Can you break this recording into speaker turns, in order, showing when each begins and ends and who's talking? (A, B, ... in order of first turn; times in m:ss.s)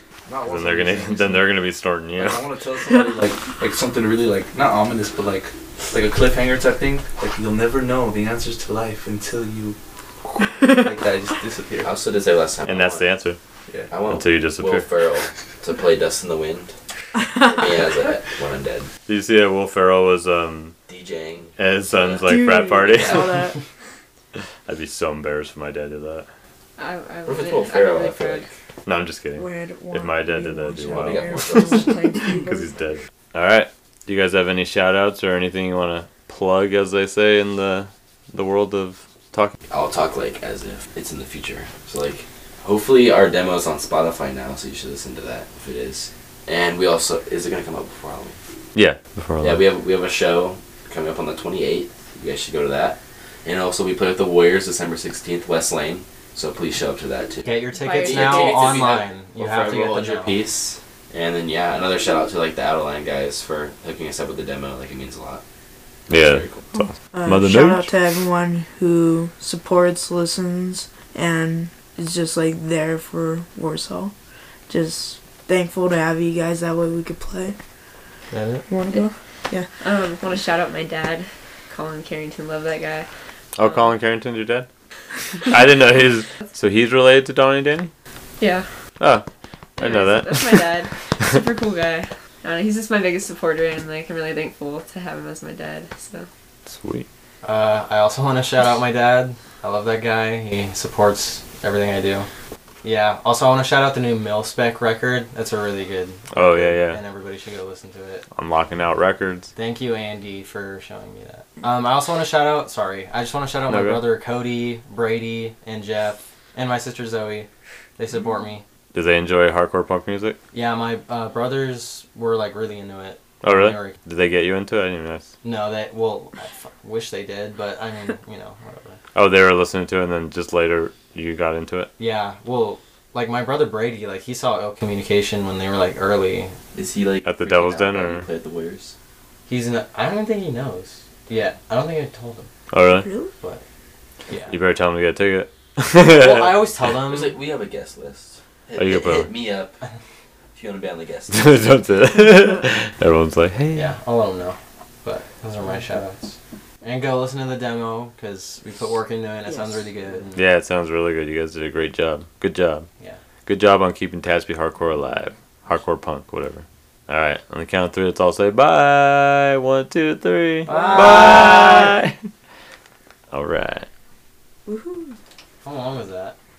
0:00.3-0:01.5 A
0:00.4-0:02.4 B
0:02.2-0:12.0 A
0:11.8-0:13.1 C
0:12.6-0:13.4 B
0:13.9-0:16.8 C
0:14.1-0:14.9 B
0:17.4-0:18.9 C
0:19.1-0:20.8 B
0:20.9-0:22.2 C
0:21.6-0:23.5 B
0:22.2-0:23.6 D
0:22.8-0:23.4 C
0:24.7-0:26.3 B
0:26.8-0:28.5 E
0:27.3-0:28.5 C
0:28.9-0:31.5 B
0:29.4-0:32.8 D
0:30.8-0:32.2 C
0:32.3-0:39.5 B
0:39.7-0:48.4 C
0:48.8-0:49.6 B
0:49.4-1:05.4 C
0:57.4-1:00.4 F
0:57.7-0:59.0 E
1:06.1-1:06.7 C
1:06.1-1:07.9 B
1:06.7-1:14.1 D
1:14.7-1:17.6 D
1:18.3-1:18.6 F
1:18.7-1:19.7 D
1:19.8-1:23.1 E
1:23.6-1:24.7 B
1:23.6-1:23.9 E
1:25.5-1:27.9 B
1:28.4-1:28.7 E
1:29.0-1:29.2 B
1:29.8-1:36.3 E
1:29.8-1:30.7 B
1:36.7-1:37.1 B
1:37.4-1:42.3 F
1:42.8-1:48.2 F
1:46.3-1:47.0 B
1:48.3-1:49.5 B
1:49.6-1:58.6 F
1:53.7-1:54.1 B
1:58.9-2:00.4 B
2:00.5-2:04.0 F
2:03.4-2:05.3 B
2:05.4-2:09.0 F
2:09.2-2:11.9 B
2:12.0-2:16.6 F
2:16.7-2:19.0 C
2:17.2-2:18.3 B
2:19.5-2:22.5 F
2:22.7-2:23.1 B
2:22.9-2:23.3 D
2:24.3-2:24.6 F
2:24.5-2:26.7 B
2:26.0-2:27.4 F
2:27.0-2:29.8 C
2:28.8-2:29.3 B
2:30.5-2:31.8 C
2:31.3-2:34.0 B
2:33.7-2:40.4 F
2:40.4-2:42.9 B
2:43.5-2:52.2 B
2:50.7-2:52.0 F
2:50.7-2:51.6 D
2:53.3-2:53.9 B
2:54.7-2:55.2 D
2:55.6-2:56.4 F